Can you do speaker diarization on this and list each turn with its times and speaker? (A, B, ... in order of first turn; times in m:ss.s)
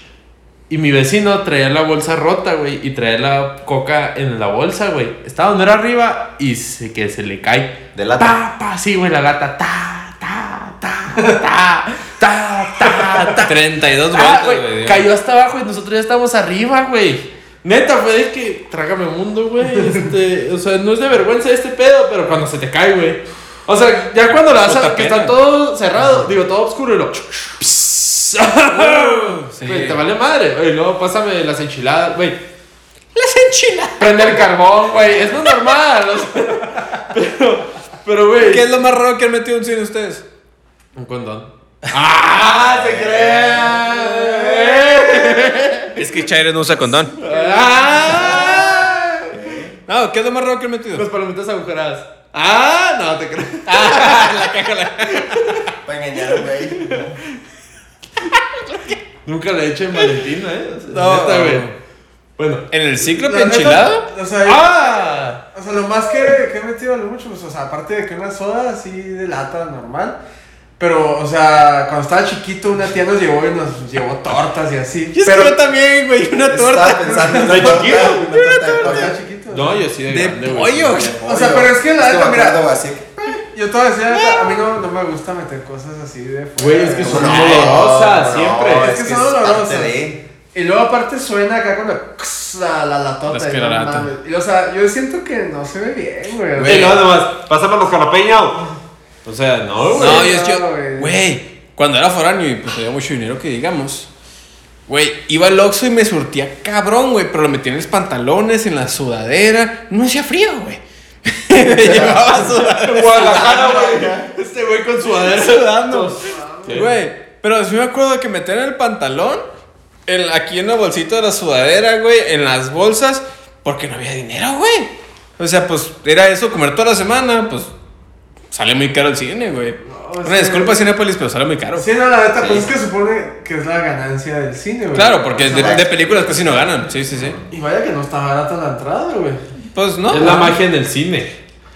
0:00.7-0:13.6 A
0:08.0-0:08.4 B
0:13.4-0:15.1 C
0:14.1-0:32.4 A
0:24.3-0:25.4 C
0:28.7-0:30.0 C
0:33.2-0:34.5 C
0:34.0-0:38.6 A
0:34.9-0:35.4 B
0:38.4-0:40.2 C
0:41.0-0:45.9 A
0:42.6-0:43.8 B
0:43.8-0:44.8 D
0:44.5-0:47.2 C
0:47.2-0:49.0 A
0:47.2-0:48.7 D
0:48.1-0:48.8 B
0:48.2-0:49.0 C
0:49.3-0:49.8 B
0:49.9-0:51.0 C
0:50.9-0:54.5 A
0:53.7-0:55.6 C
0:55.0-0:55.7 A
0:55.8-0:57.2 B
0:58.3-0:59.0 C
0:59.2-1:01.7 A
1:00.9-1:01.7 C
1:02.4-1:02.6 A
1:02.7-1:04.1 C
1:03.0-1:10.2 D
1:04.4-1:05.4 A
1:10.8-1:15.6 D
1:15.1-1:18.9 C
1:16.5-1:19.2 B
1:17.1-1:17.9 D
1:17.4-1:18.3 A
1:18.7-1:19.9 D
1:19.5-1:21.0 A
1:20.1-1:21.2 C
1:20.9-1:23.3 B
1:21.2-1:22.6 D
1:23.4-1:27.5 D
1:24.1-1:24.6 C
1:26.6-1:28.9 A
1:27.0-1:30.2 B
1:27.1-1:27.8 C
1:28.7-1:29.9 D
1:30.5-1:37.0 D
1:33.3-1:34.1 C
1:36.5-1:37.0 C
1:36.6-1:38.7 A
1:39.2-1:40.3 A
1:39.8-1:41.2 D
1:40.0-1:44.1 C
1:44.9-1:53.9 C
1:51.6-1:54.3 B
1:52.7-1:56.9 A
1:55.1-1:59.4 C
1:56.2-1:56.9 D
2:00.1-2:07.7 C
2:08.5-2:11.9 C
2:09.8-2:10.9 D
2:11.8-2:15.8 D
2:12.4-2:12.7 B
2:14.9-2:17.4 C
2:15.4-2:17.4 B
2:17.5-2:19.4 D
2:19.7-2:20.6 C
2:20.1-2:21.3 A
2:20.2-2:20.5 D